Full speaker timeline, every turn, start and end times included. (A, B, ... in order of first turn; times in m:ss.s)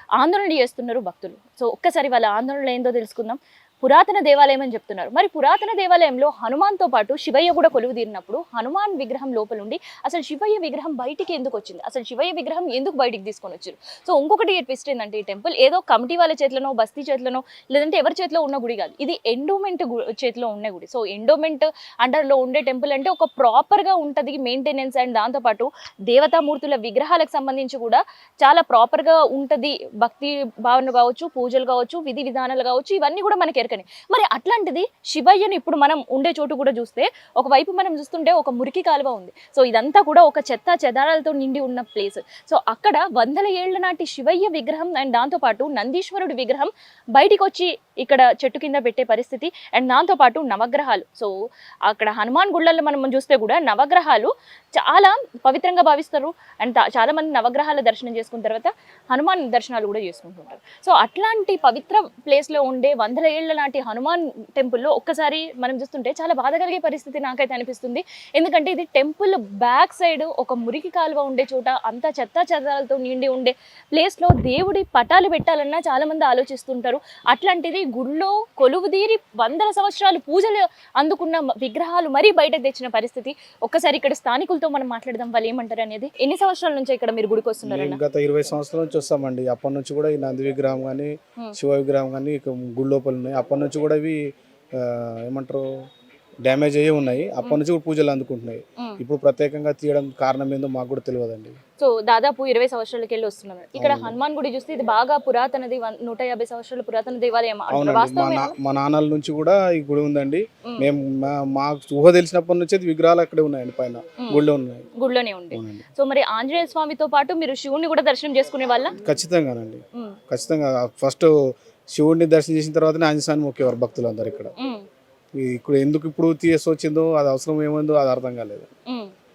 0:00.2-0:51.3 A
0:51.9-1:28.0 A
1:27.6-1:34.2 B
1:34.8-1:35.6 B
1:36.4-1:41.6 B
1:41.8-1:48.5 A
1:43.8-1:44.2 B
1:47.7-1:54.9 B
1:55.0-1:59.0 A
1:55.5-1:55.8 B
1:59.0-2:01.3 B
2:01.9-2:04.5 B
2:04.6-2:04.8 A
2:05.4-2:08.7 B